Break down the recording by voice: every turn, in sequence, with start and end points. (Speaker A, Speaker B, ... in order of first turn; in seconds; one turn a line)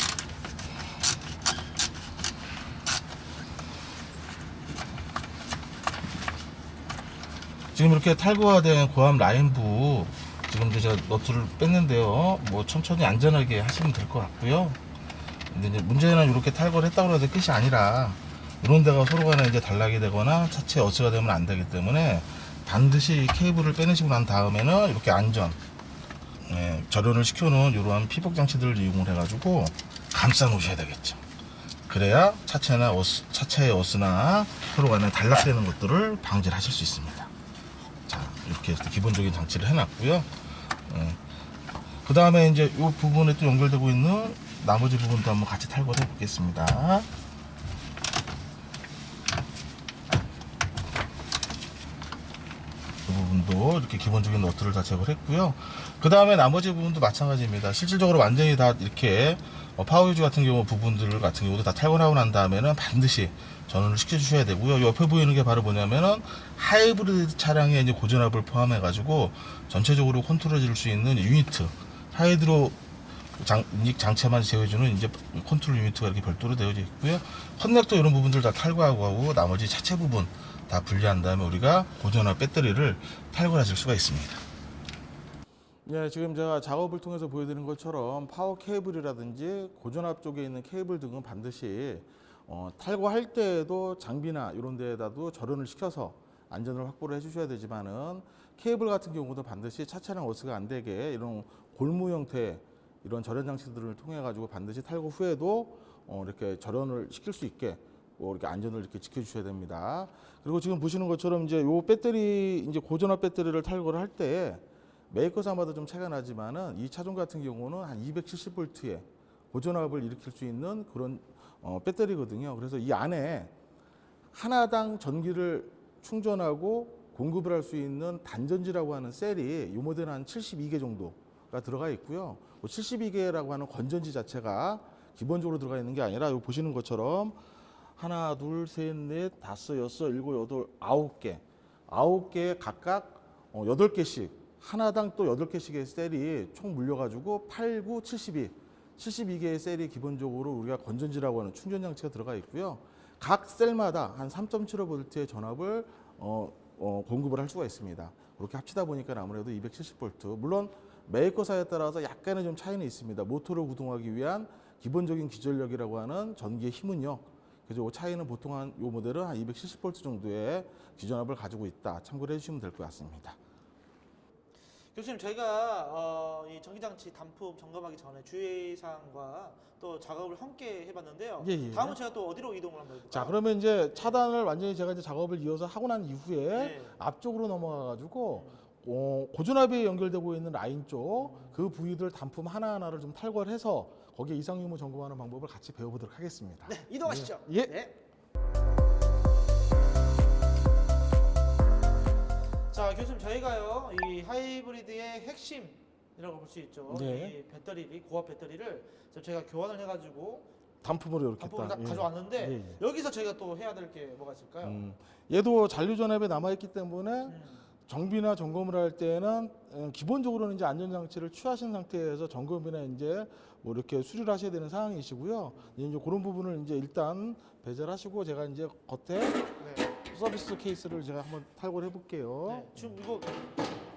Speaker A: 7.7-14.8
Speaker A: 15.5-25.6
Speaker A: 26.5-31.2
Speaker A: 31.9-37.3
Speaker A: 38.1-41.2
Speaker A: 42.0-47.1
Speaker A: 53.0-72.8
Speaker A: 73.4-84.5
Speaker A: 85.8-123.5
Speaker A: 124.3-137.4
Speaker A: 138.0-173.4
Speaker B: 174.9-183.4
Speaker A: 181.4-182.0
Speaker A: 183.1-197.9
Speaker B: 186.5-187.0
Speaker B: 188.3-188.6
Speaker B: 191.2-191.6
Speaker B: 196.7-197.9
Speaker B: 202.7-210.5
Speaker A: 206.9-207.3
Speaker A: 210.8-212.8
Speaker B: 211.4-214.8
Speaker A: 214.6-229.5
Speaker B: 217.3-217.7
Speaker B: 229.6-230.0
Speaker A: 230.0-233.0
Speaker B: 232.5-233.6